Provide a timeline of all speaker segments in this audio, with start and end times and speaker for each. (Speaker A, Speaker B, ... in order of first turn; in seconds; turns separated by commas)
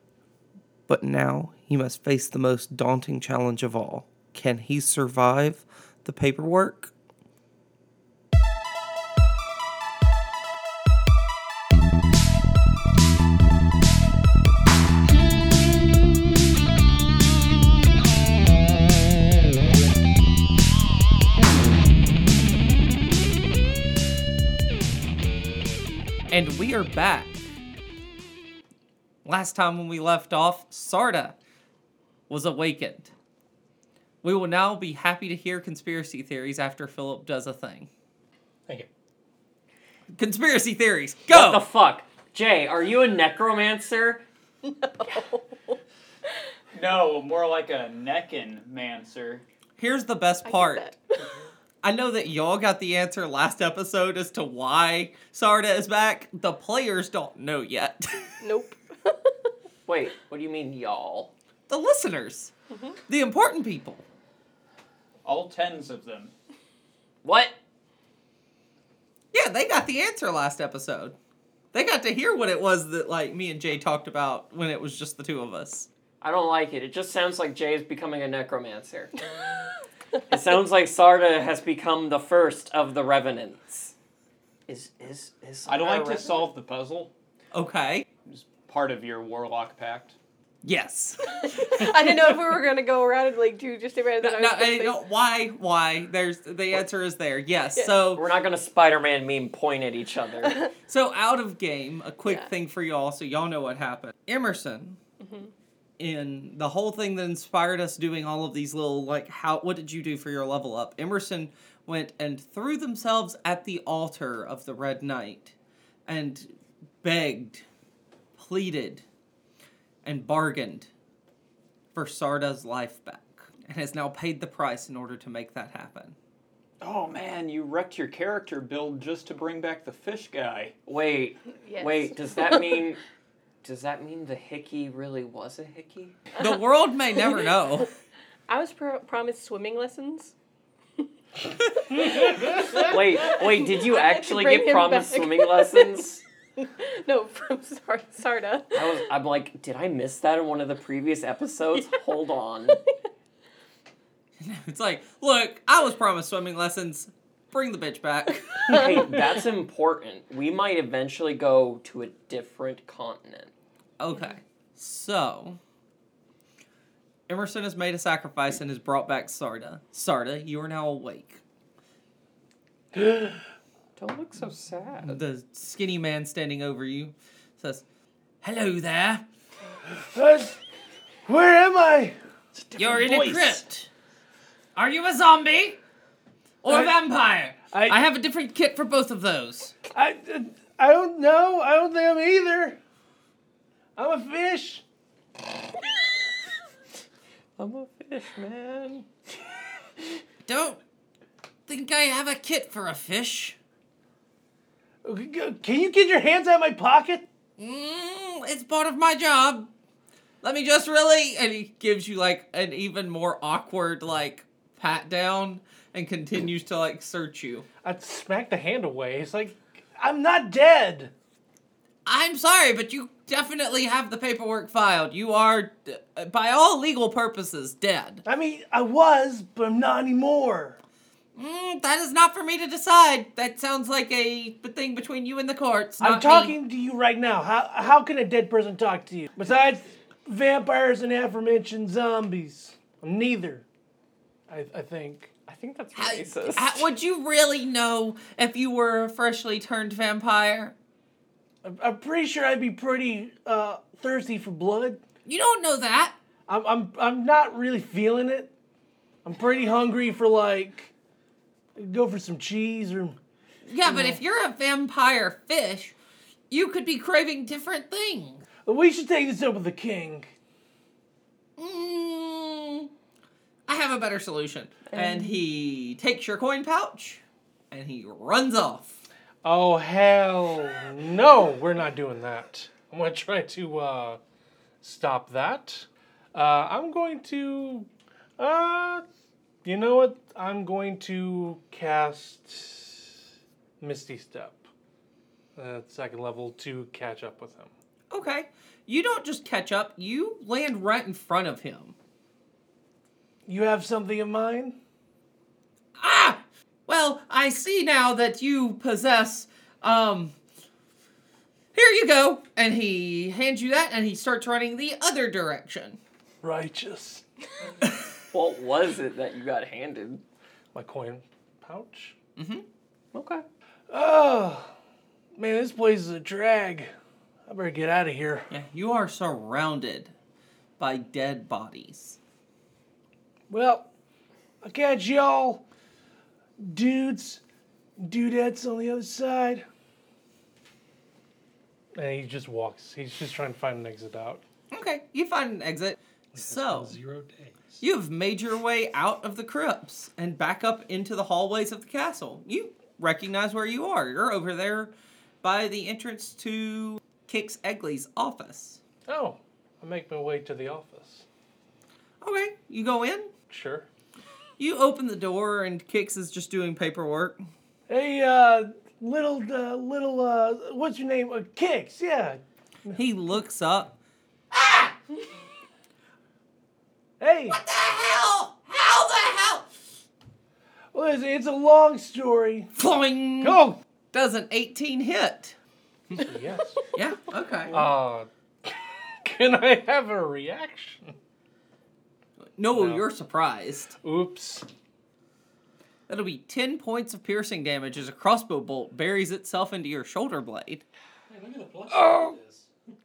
Speaker A: 0.9-6.9, Speaker A: 26.3-27.4, Speaker A: 29.2-31.4, Speaker A: 32.3-33.1, Speaker A: 34.2-37.9, Speaker A: 40.1-41.6, Speaker B: 41.3-44.2, Speaker C: 44.6-45.8, Speaker D: 46.7-49.4, Speaker A: 49.8-50.8, Speaker C: 50.4-51.3, Speaker A: 51.8-58.3, Speaker C: 58.4-59.5, Speaker B: 59.9-61.3, Speaker A: 61.7-62.5, Speaker C: 62.7-63.0, Speaker A: 63.1-64.0, Speaker D: 65.2-66.3, Speaker B: 67.2-67.5, Speaker A: 69.3-71.2, Speaker A: 71.7-75.9, Speaker B: 76.2-79.2, Speaker B: 80.3-83.9, Speaker B: 84.7-86.5, Speaker D: 85.7-87.1, Speaker A: 87.5-88.0, Speaker D: 88.2-90.2, Speaker A: 90.6-92.2, Speaker C: 91.3-95.0, Speaker A: 94.2-98.2, Speaker B: 98.1-100.7, Speaker A: 100.9-105.0, Speaker C: 105.2-105.5, Speaker A: 106.0-115.5, Speaker A: 116.1-116.5, Speaker A: 117.0-117.6, Speaker A: 118.3-119.0, Speaker A: 120.0-120.9, Speaker A: 121.9-126.2, Speaker D: 126.8-130.7, Speaker B: 130.9-133.0, Speaker C: 131.6-132.8, Speaker B: 133.6-136.2, Speaker A: 136.4-137.9, Speaker C: 138.5-140.3, Speaker C: 141.8-146.0, Speaker B: 142.7-146.2, Speaker C: 146.6-148.9, Speaker B: 148.7-152.8, Speaker A: 154.4-158.9, Speaker B: 158.7-163.5, Speaker A: 164.0-165.6, Speaker A: 167.3-171.4, Speaker E: 172.9-173.4, Speaker B: 173.9-175.2, Speaker A: 175.0-177.8, Speaker A: 178.4-179.2, Speaker E: 179.9-180.6, Speaker E: 181.2-182.1, Speaker A: 182.8-183.9, Speaker A: 184.7-185.8, Speaker A: 186.6-189.7, Speaker E: 187.7-188.0, Speaker E: 189.9-192.8, Speaker E: 193.9-194.8, Speaker B: 197.6-199.1, Speaker A: 200.4-200.8, Speaker A: 201.7-203.6, Speaker E: 205.0-207.2, Speaker A: 207.6-209.7, Speaker A: 210.4-217.7, Speaker E: 217.8-221.1, Speaker A: 222.0-228.2, Speaker E: 228.2-230.8, Speaker A: 231.3-236.6, Speaker E: 236.0-243.6, Speaker E: 244.5-245.3, Speaker B: 245.5-246.9, Speaker A: 245.9-250.7, Speaker E: 251.6-255.0, Speaker A: 255.2-256.1, Speaker E: 256.5-258.5, Speaker E: 259.2-260.9, Speaker E: 261.8-263.2, Speaker A: 263.6-265.9, Speaker E: 263.9-264.2, Speaker A: 266.5-268.4, Speaker E: 268.6-270.3, Speaker A: 271.6-272.9, Speaker A: 273.6-279.0, Speaker E: 279.4-284.2, Speaker E: 284.8-289.0, Speaker E: 289.6-293.1, Speaker E: 293.8-294.7, Speaker E: 295.6-297.7, Speaker A: 298.1-301.9, Speaker E: 303.4-304.8, Speaker A: 306.0-310.3, Speaker A: 311.7-316.0, Speaker E: 316.4-317.2, Speaker B: 318.3-320.2, Speaker E: 320.7-322.1, Speaker A: 322.4-322.6, Speaker B: 323.1-323.4, Speaker E: 323.9-324.7, Speaker E: 325.3-326.9, Speaker E: 327.5-328.5, Speaker A: 328.5-330.1, Speaker A: 330.8-332.2, Speaker E: 333.5-333.9, Speaker E: 334.6-335.6, Speaker E: 336.6-337.4, Speaker E: 338.0-339.6, Speaker E: 341.9-344.4, Speaker A: 344.7-346.9, Speaker F: 346.3-347.8, Speaker A: 347.8-358.8, Speaker E: 359.1-361.2, Speaker A: 362.2-363.3, Speaker E: 363.5-363.9, Speaker A: 364.6-367.4, Speaker E: 367.9-373.0, Speaker A: 372.9-373.9, Speaker A: 374.5-374.9, Speaker E: 377.2-377.6, Speaker A: 377.5-379.7, Speaker E: 380.9-382.7, Speaker A: 382.8-383.6, Speaker E: 383.4-383.8, Speaker A: 384.1-385.6, Speaker E: 386.1-386.9, Speaker A: 386.9-387.9, Speaker E: 387.7-391.1, Speaker A: 392.6-393.9, Speaker E: 392.7-393.0, Speaker E: 394.0-394.6, Speaker A: 396.1-400.8, Speaker F: 401.3-402.7, Speaker E: 401.9-402.4